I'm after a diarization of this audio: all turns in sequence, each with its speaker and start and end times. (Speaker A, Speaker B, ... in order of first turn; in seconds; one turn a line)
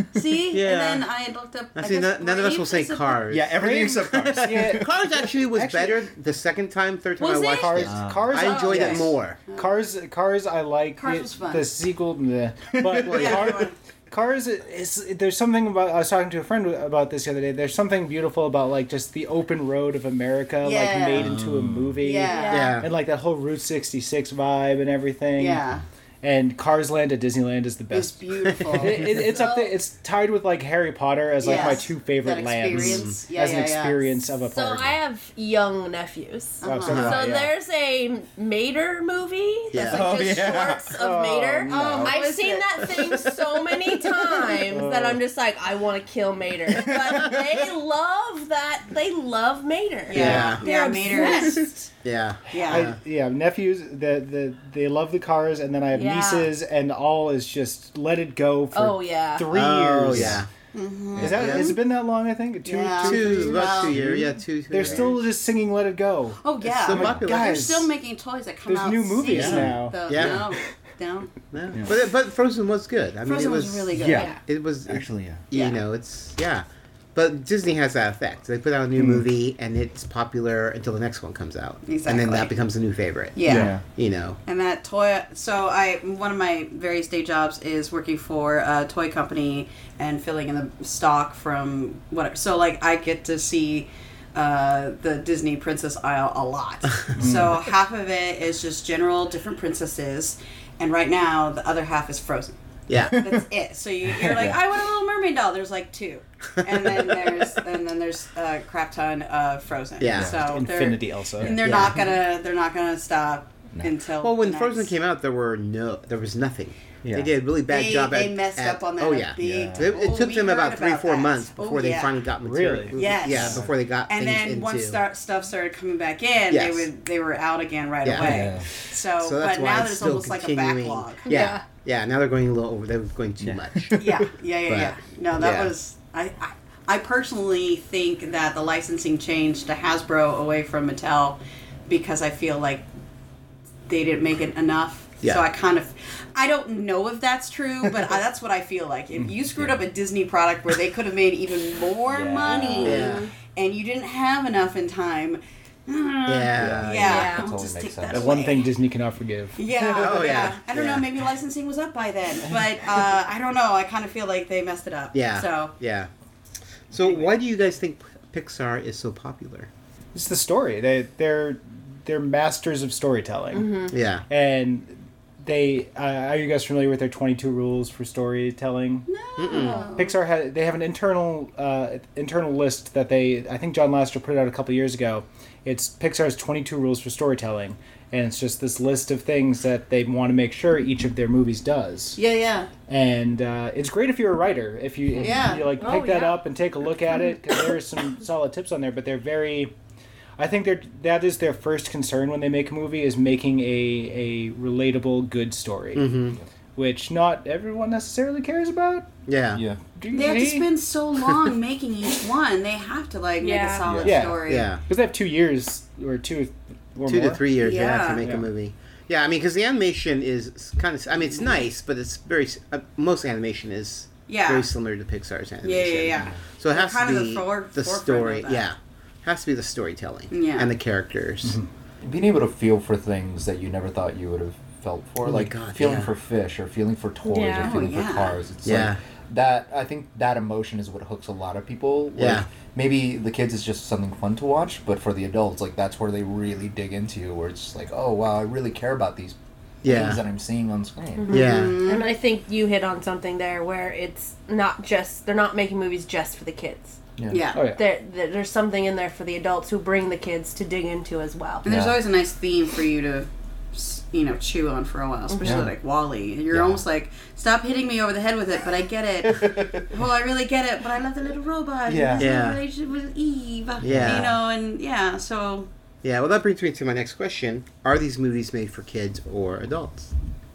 Speaker A: 0.1-3.2
Speaker B: 0.5-1.1
Speaker B: 1.8-9.4
Speaker C: 3.3-4.9
Speaker D: 4.4-4.9
Speaker D: 5.5-6.1
Speaker A: 7.2-9.7
Speaker D: 7.6-25.6
Speaker C: 7.8-8.4
Speaker A: 11.0-11.7
Speaker B: 13.1-13.5
Speaker A: 13.1-13.8
Speaker A: 20.6-21.3
Speaker C: 21.2-22.0
Speaker A: 22.0-22.7
Speaker E: 22.3-22.8
Speaker B: 22.5-22.9
Speaker A: 25.4-25.8
Speaker D: 26.2-35.0
Speaker A: 27.9-29.2
Speaker E: 29.2-29.7
Speaker A: 31.4-34.1
Speaker E: 31.4-31.8
Speaker B: 32.8-33.1
Speaker E: 34.5-51.9
Speaker A: 36.6-37.2
Speaker D: 36.6-37.5
Speaker B: 36.9-37.3
Speaker B: 39.7-40.2
Speaker C: 39.8-40.9
Speaker D: 41.0-41.8
Speaker A: 41.7-43.3
Speaker C: 41.8-42.1
Speaker D: 44.7-45.2
Speaker A: 50.1-51.7
Speaker B: 50.1-50.7
Speaker B: 52.0-53.0
Speaker A: 52.5-52.9
Speaker D: 52.5-60.4
Speaker E: 55.9-56.5
Speaker E: 58.7-59.5
Speaker B: 59.5-60.5
Speaker C: 60.1-60.4
Speaker A: 60.7-61.8
Speaker D: 61.2-66.4
Speaker B: 61.2-61.7
Speaker A: 62.6-64.0
Speaker B: 63.0-65.1
Speaker A: 66.4-71.4
Speaker B: 66.8-67.8
Speaker C: 66.9-67.2
Speaker D: 66.9-67.8
Speaker D: 68.7-70.0
Speaker C: 69.3-70.4
Speaker B: 69.3-70.4
Speaker B: 71.5-84.4
Speaker A: 73.2-74.4
Speaker C: 73.9-74.3
Speaker C: 74.9-75.4
Speaker A: 75.5-75.8
Speaker C: 79.0-79.2
Speaker A: 81.8-82.5
Speaker A: 83.4-83.8
Speaker C: 83.5-83.8
Speaker A: 84.5-102.6
Speaker B: 102.9-103.2
Speaker A: 103.1-114.9
Speaker C: 104.2-104.5
Speaker B: 110.0-110.3
Speaker C: 110.1-110.4
Speaker D: 110.4-111.6
Speaker B: 111.6-112.1
Speaker B: 114.2-125.0
Speaker C: 117.0-117.3
Speaker A: 117.7-122.2
Speaker C: 119.4-120.1
Speaker D: 122.4-123.0
Speaker A: 123.0-131.4
Speaker C: 123.3-123.7
Speaker B: 126.5-126.9
Speaker B: 128.1-128.5
Speaker C: 128.1-128.7
Speaker B: 129.2-134.0
Speaker E: 131.2-131.6
Speaker C: 133.4-134.2
Speaker A: 134.0-142.9
Speaker B: 134.7-135.7
Speaker A: 143.9-158.7
Speaker C: 152.1-153.1
Speaker B: 152.8-153.3
Speaker E: 153.0-153.3
Speaker B: 156.3-157.3
Speaker C: 156.5-158.3
Speaker E: 157.0-157.5
Speaker D: 158.1-159.6
Speaker A: 159.6-165.7
Speaker B: 159.9-161.1
Speaker B: 165.1-166.1
Speaker B: 166.9-169.7
Speaker D: 170.1-179.1
Speaker E: 173.5-173.9
Speaker B: 173.9-174.2
Speaker A: 179.1-180.2
Speaker B: 179.4-179.8
Speaker E: 179.5-179.9
Speaker D: 180.0-192.2
Speaker A: 192.2-192.7
Speaker D: 192.9-199.7
Speaker A: 195.2-195.7
Speaker E: 195.4-196.4
Speaker D: 200.4-206.2
Speaker B: 205.9-206.4
Speaker D: 206.8-209.1
Speaker B: 209.3-209.6
Speaker C: 209.5-209.8
Speaker D: 209.9-210.7
Speaker A: 210.1-214.7
Speaker E: 213.4-213.9
Speaker C: 213.8-214.2
Speaker D: 214.0-217.4
Speaker B: 214.4-214.8
Speaker B: 217.1-231.6
Speaker A: 217.6-218.2
Speaker D: 218.2-218.5
Speaker A: 221.2-221.6
Speaker A: 224.3-224.7
Speaker A: 225.6-228.7
Speaker A: 230.3-230.7
Speaker C: 232.0-251.4
Speaker B: 235.2-236.1
Speaker E: 237.2-237.7
Speaker A: 237.6-238.4
Speaker B: 238.6-239.0
Speaker B: 242.2-242.5
Speaker B: 249.8-250.2
Speaker E: 251.2-257.0
Speaker B: 251.3-251.8
Speaker A: 251.3-252.1
Speaker C: 257.2-257.6
Speaker A: 257.3-257.6
Speaker D: 257.5-257.8
Speaker E: 257.7-261.7
Speaker A: 261.6-275.7
Speaker C: 261.7-262.0
Speaker C: 265.4-265.7
Speaker C: 266.5-266.8
Speaker C: 269.2-269.9
Speaker C: 271.9-272.3
Speaker B: 272.2-272.6
Speaker B: 273.8-274.3
Speaker C: 273.8-274.4
Speaker B: 276.0-280.1